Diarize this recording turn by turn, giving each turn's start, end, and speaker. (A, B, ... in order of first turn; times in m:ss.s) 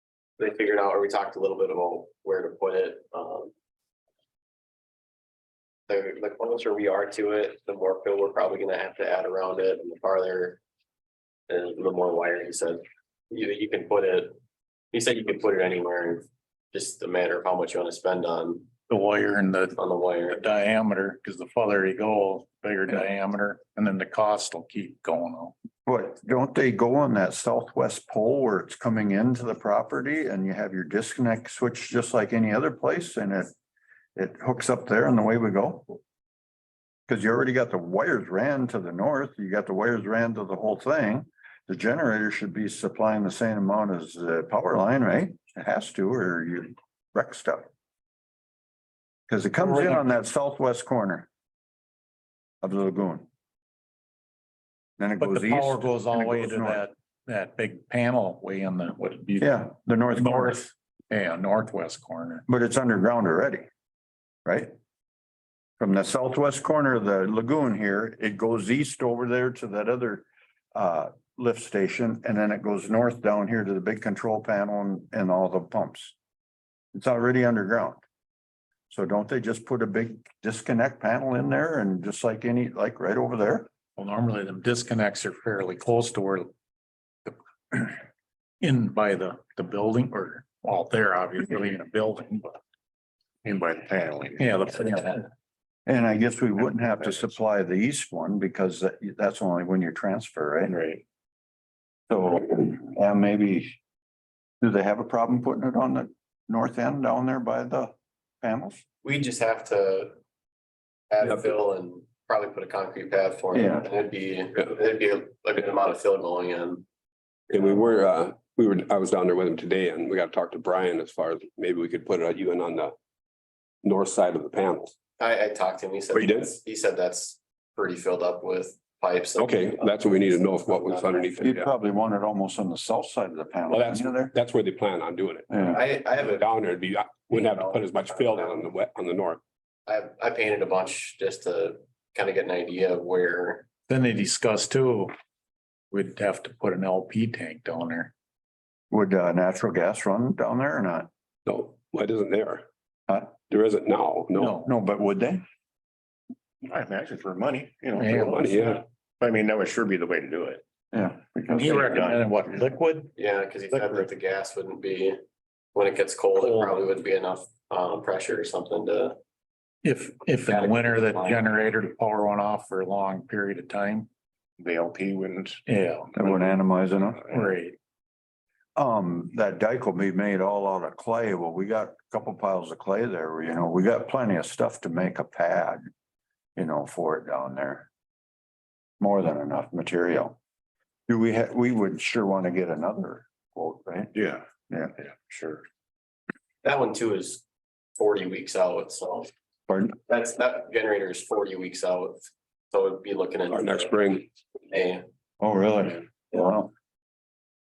0:00.4-0:03.5 A
0:05.9-0:10.6 A
0:11.5-0:14.4 A
0:14.9-0:18.7 A
0:18.9-0:19.8 B
0:19.8-0:20.4 A
0:20.3-0:25.5 B
0:25.8-0:33.5 C
0:34.2-0:36.0 C
0:37.1-0:47.7 C
0:49.3-0:51.3 C
0:49.6-0:49.9 B
0:52.6-0:53.3 C
0:55.0-0:56.8 C
0:55.2-0:59.5 B
0:59.4-1:00.6 C
1:00.2-1:02.4 B
1:02.5-1:03.6 C
1:04.4-1:04.7 C
1:05.8-1:16.1 C
1:16.9-1:18.0 C
1:18.9-1:23.7 C
1:24.0-1:26.5 B
1:27.2-1:28.0 B
1:28.6-1:32.6 B
1:33.4-1:34.6 D
1:34.4-1:35.3 B
1:35.8-1:40.7 C
1:40.6-1:41.0 D
1:42.1-1:43.8 C
1:44.6-1:48.8 C
1:49.0-1:50.2 A
1:51.1-1:56.8 A
1:51.2-1:51.5 E
1:53.5-1:53.9 C
1:57.5-2:02.9 E
2:03.8-2:04.9 E
2:05.2-2:11.4 A
2:06.1-2:06.6 E
2:09.4-2:11.7 E
2:11.4-2:14.3 C
2:13.7-2:19.4 E
2:15.5-2:15.8 C
2:15.6-2:16.5 A
2:17.3-2:18.6 A
2:19.9-2:23.7 A
2:23.9-2:25.1 B
2:25.9-2:28.1 B
2:28.9-2:31.1 C
2:31.4-2:32.6 E
2:33.5-2:34.6 E
2:34.6-2:35.4 C
2:36.6-2:40.6 D
2:38.1-2:38.8 E
2:40.9-2:42.0 C
2:41.5-2:42.7 D
2:41.6-2:43.1 B
2:43.1-2:45.2 A
2:45.7-2:49.2 A
2:46.4-2:46.8 B
2:49.8-2:54.1 B
2:50.5-2:51.4 A
2:54.6-2:55.6 D
2:55.7-2:56.0 B
2:56.1-2:57.2 C
2:56.2-2:56.6 D
2:57.4-2:57.8 B
2:58.8-3:05.8 C
3:06.6-3:07.9 C
3:09.0-3:10.4 C
3:11.1-3:14.1 C
3:14.1-3:14.4 D
3:15.0-3:15.6 D
3:16.6-3:17.4 A
3:18.0-3:19.3 A
3:19.7-3:20.0 C
3:20.1-3:24.0 A
3:23.5-3:24.3 E
3:24.7-3:25.0 A
3:25.4-3:26.7 C